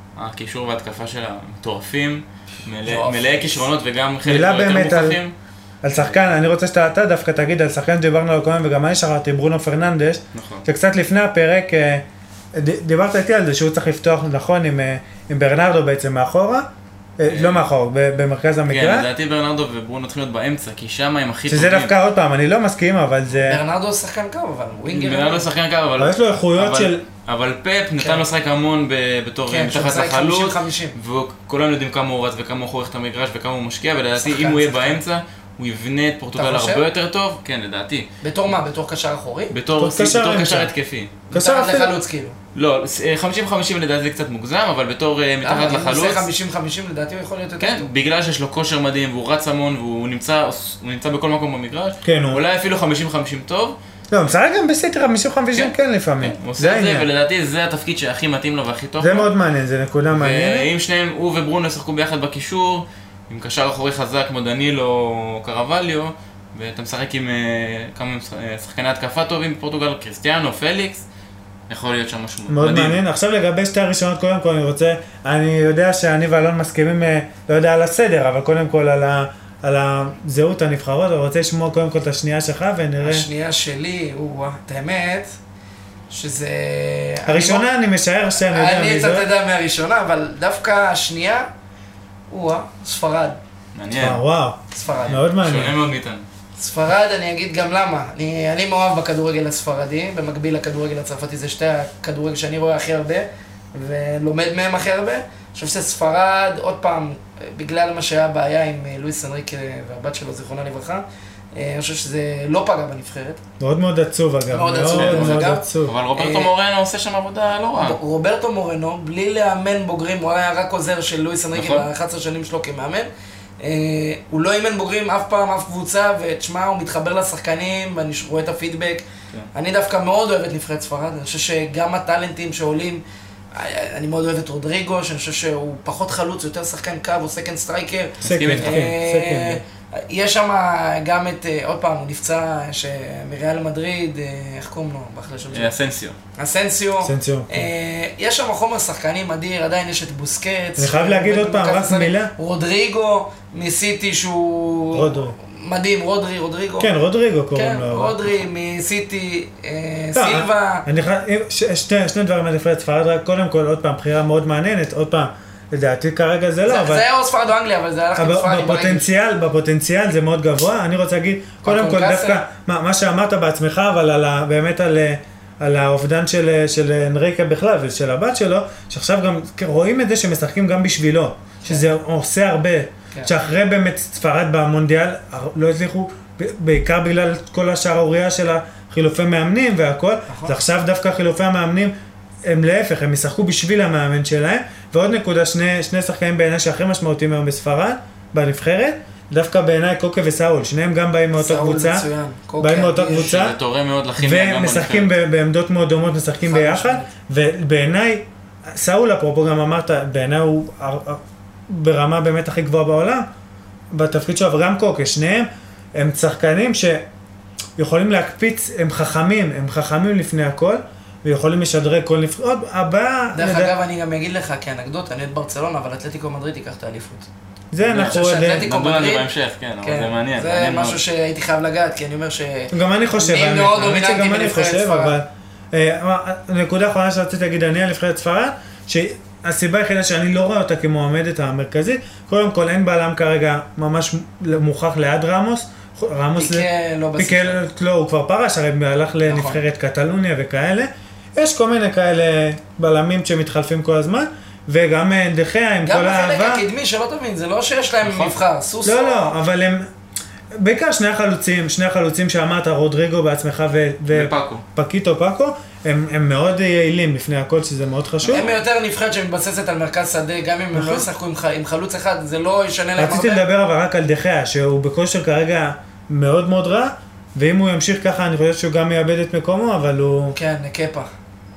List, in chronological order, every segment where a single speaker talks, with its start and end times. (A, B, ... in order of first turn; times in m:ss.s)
0:00.2-0:05.3 A
0:02.8-0:03.6 B
0:04.2-0:05.2 C
0:05.8-0:16.7 C
0:06.0-0:06.3 A
0:10.3-0:10.6 A
0:17.2-0:19.1 C
0:17.3-0:17.7 A
0:18.7-0:21.9 A
0:21.5-0:23.6 C
0:23.4-0:25.5 B
0:24.9-0:38.1 A
0:26.0-0:27.0 C
0:28.0-0:28.3 B
0:29.5-0:31.0 B
0:34.2-0:35.0 B
0:36.4-0:36.8 B
0:38.2-0:39.5 B
0:39.5-0:41.2 A
0:39.8-0:40.7 C
0:41.3-0:42.4 B
0:41.3-0:41.9 C
0:42.6-0:46.3 A
0:45.4-0:47.9 B
0:47.6-0:53.8 A
0:52.0-0:52.4 C
0:54.1-0:57.1 C
0:55.6-0:59.3 A
0:59.0-1:00.7 C
1:00.1-1:11.0 A
1:11.7-1:13.0 A
1:12.5-1:23.3 C
1:23.0-1:25.3 B
1:26.1-1:27.7 B
1:27.3-1:29.3 C
1:28.5-1:31.5 B
1:32.3-1:33.4 B
1:33.8-1:34.2 A
1:34.0-1:35.8 C
1:34.7-1:35.2 B
1:34.9-1:36.2 A
1:36.6-1:53.4 B
1:53.6-1:56.0 C
1:54.5-1:56.5 B
1:55.0-1:58.0 A
1:57.8-2:03.1 B
2:01.5-2:01.9 A
2:03.6-2:13.0 B
2:13.5-2:25.7 B
2:18.2-2:18.9 A
2:18.2-2:19.6 C
2:25.5-2:26.2 A
2:26.4-2:36.9 B
2:27.0-2:27.7 C
2:30.8-2:32.3 C
2:34.9-2:35.4 C
2:36.8-2:38.2 C
2:37.5-2:40.9 B
2:40.2-2:47.1 C
2:46.6-2:49.1 B
2:48.2-3:22.0 C
2:51.6-2:52.5 B
3:10.3-3:10.6 B
3:21.4-3:23.4 B
3:22.6-3:23.6 C
3:23.1-3:25.1 A
3:24.2-3:33.3 C
3:26.4-3:27.1 B
3:33.9-3:37.1 C
3:37.8-3:43.7 C
3:43.3-3:47.3 B
3:47.7-3:48.7 C
3:47.8-3:51.0 A
3:47.9-3:49.3 B
3:49.8-3:55.2 B
3:52.7-4:16.6 C
4:06.4-4:07.6 B
4:09.3-4:09.6 B
4:15.9-4:19.4 B
4:18.0-4:18.4 A
4:18.8-4:19.9 C
4:20.6-4:28.5 C
4:24.1-4:24.6 A
4:28.2-4:33.4 B
4:30.7-4:31.1 C
4:33.0-4:40.4 C
4:40.3-4:41.1 B